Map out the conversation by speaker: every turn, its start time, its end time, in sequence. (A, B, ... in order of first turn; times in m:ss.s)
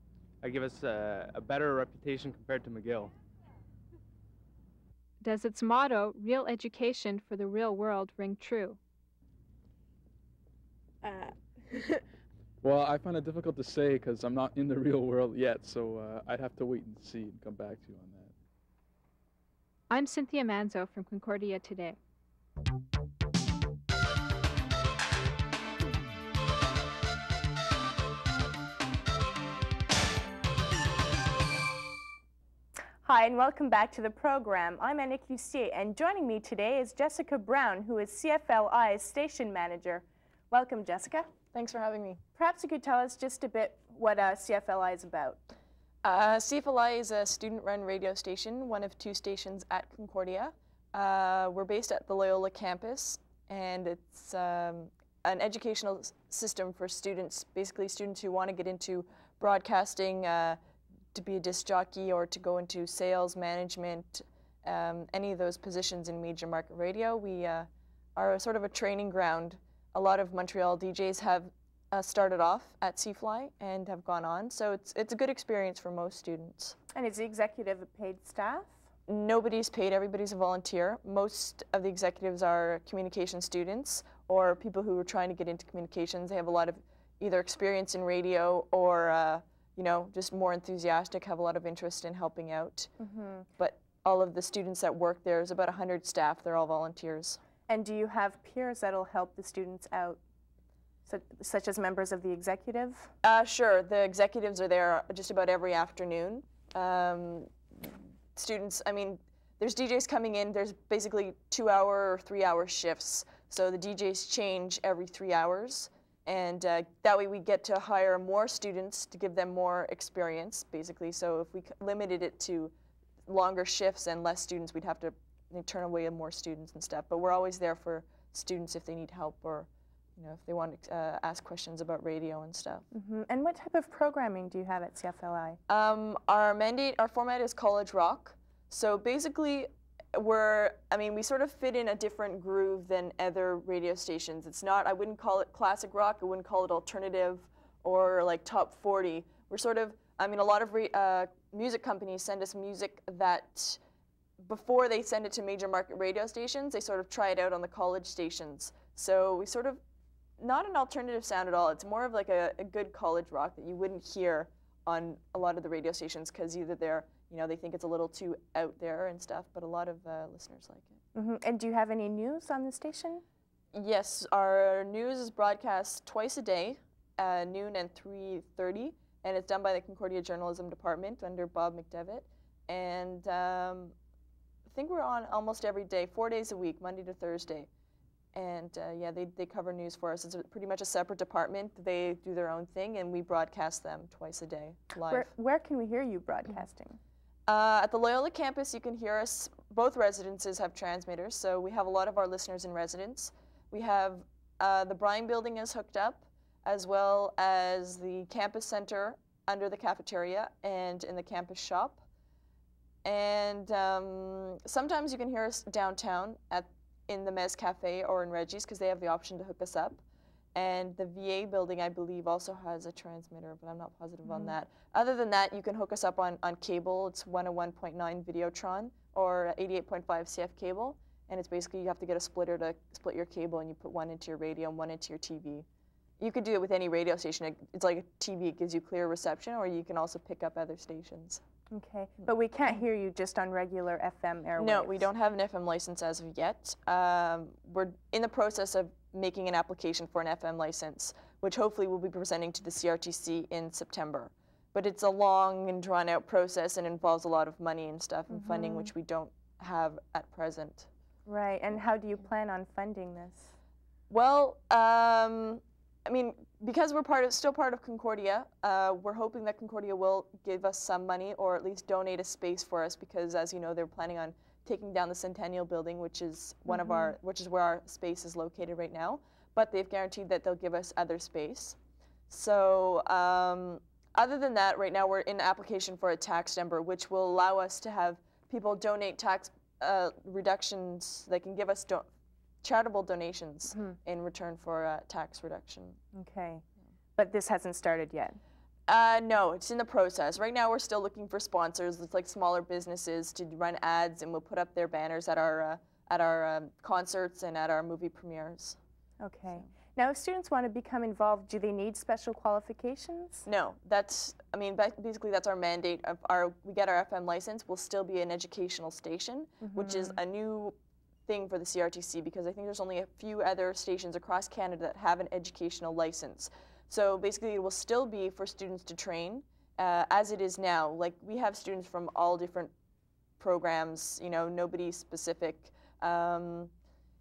0:00.4-0:03.1 A
0:05.2-0:08.8 B
0:12.6-0:18.3 C
0:19.9-0:22.0 B
0:33.0-0:41.3 D
0:41.5-0:42.2 E
0:42.3-0:45.4 D
0:46.0-1:00.6 E
1:01.1-1:16.8 E
1:16.9-1:18.9 D
1:19.1-1:32.9 E
1:33.0-1:33.4 D
1:33.6-1:37.4 E
1:37.7-1:40.2 D
1:41.0-1:43.1 D
1:43.2-2:02.7 E
2:03.2-2:12.8 E
2:12.9-2:15.6 D
2:15.7-2:33.8 E
2:34.4-2:39.8 E
2:40.4-2:51.0 E
2:51.1-2:53.2 D
2:53.7-3:03.9 E
3:04.7-3:07.7 E
3:08.3-3:15.3 E
3:14.9-3:17.0 D
3:17.5-3:32.0 E
3:33.0-3:40.0 E
3:40.5-3:55.6 E
3:44.3-3:44.5 D
3:56.2-4:01.4 E
4:01.7-4:05.1 D
4:04.6-4:20.9 E
4:18.3-4:18.9 D
4:21.2-4:23.5 D
4:24.1-4:41.8 E
4:36.7-4:37.1 D
4:42.3-4:52.1 E
4:52.6-4:56.0 E
4:53.7-4:54.0 D
4:56.1-4:56.6 D
4:57.2-4:58.4 D
4:58.9-5:08.8 E
5:09.2-5:13.5 D
5:13.4-5:20.7 E
5:19.6-5:20.2 D
5:21.3-5:32.7 E
5:33.4-5:36.7 E